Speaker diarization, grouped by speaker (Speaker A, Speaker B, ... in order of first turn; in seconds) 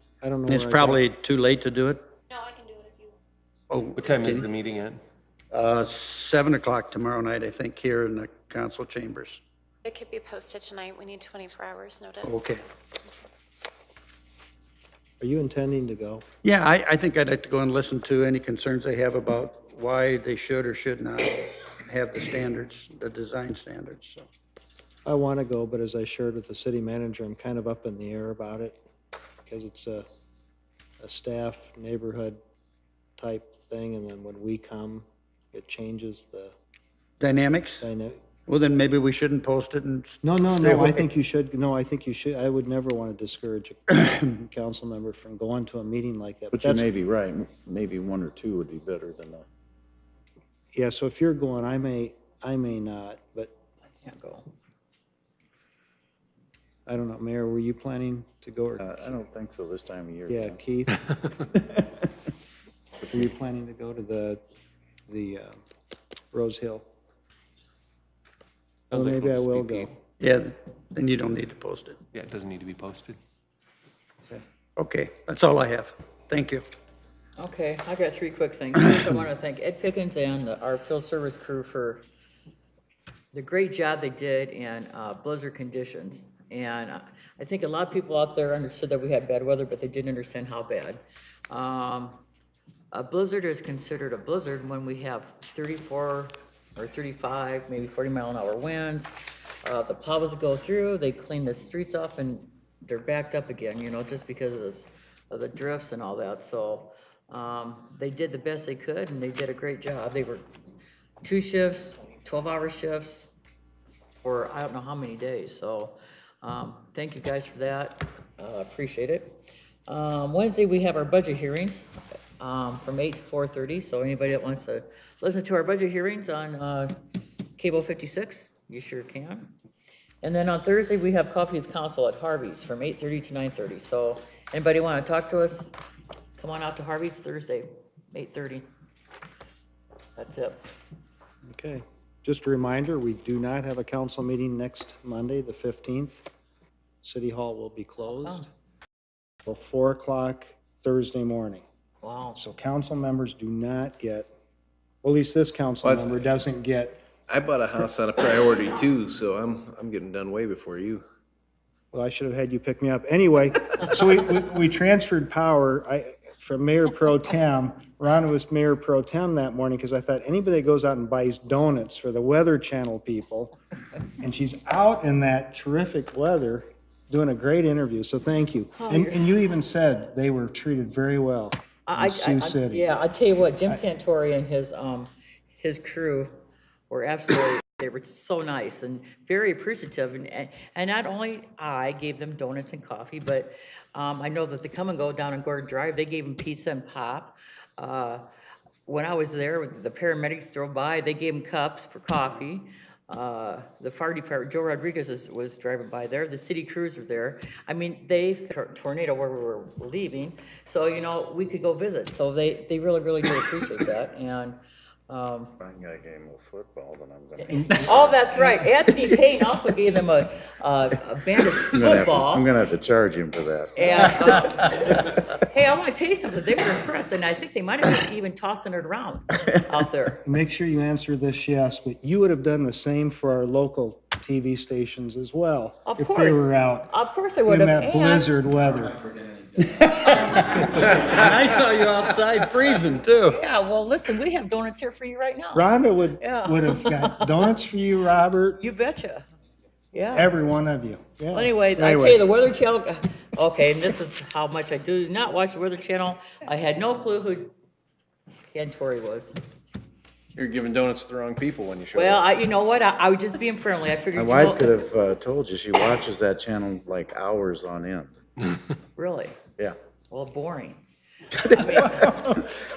Speaker A: 0.2-1.0, 15.2-16.2, 25.0-28.8, 29.5-30.0, 31.0-32.4, 33.2-36.5, 37.8-38.2, 40.2-46.9, 50.7-53.5, 56.9-59.2, 60.3-61.0, 63.0-64.4, 65.1-65.6, 66.3-66.8, 68.9-69.9, 141.5-146.2, 147.0-148.5, 149.4-151.6, 152.3-154.3, 155.0-157.0, 161.9-173.5, 174.2-182.9, 230.2-236.9, 237.4-239.0, 245.5-248.6, 250.1-252.2
Speaker B: 0.5-2.0, 3.7-4.5, 5.5-9.4, 12.2-12.6, 16.4-24.3, 37.2-37.9, 38.5-41.1, 70.2-72.0, 74.8-76.6, 239.6-243.4
Speaker C: 2.3-3.1, 9.8-12.6
Speaker D: 4.0-5.0, 68.9-69.9, 72.1-73.2
Speaker E: 46.5-49.4, 58.8-60.6, 61.5-62.0, 215.6-218.1, 221.7-223.9, 264.1-268.1
Speaker F: 54.0-54.5, 77.4-82.0, 83.3-92.2, 92.9-99.1, 99.6-110.5, 111.2-113.3, 114.2-121.9, 122.4-126.9, 127.6-129.5, 130.2-135.7, 136.4-138.7, 140.2-140.6, 148.2-148.5, 152.0-152.4, 178.7-179.3, 181.8-186.3, 186.9-198.2, 198.8-214.6, 215.1-215.6, 217.4-222.5, 223.8-230.2, 235.8-238.3, 243.2-245.7, 246.2-247.5, 248.6-249.2, 249.9-250.3, 251.3-257.5, 258.5-259.3, 261.9-264.7, 268.9-269.4, 270.1-270.8, 271.3-272.4
Speaker G: 155.8-156.2, 157.3-161.0, 260.4-262.2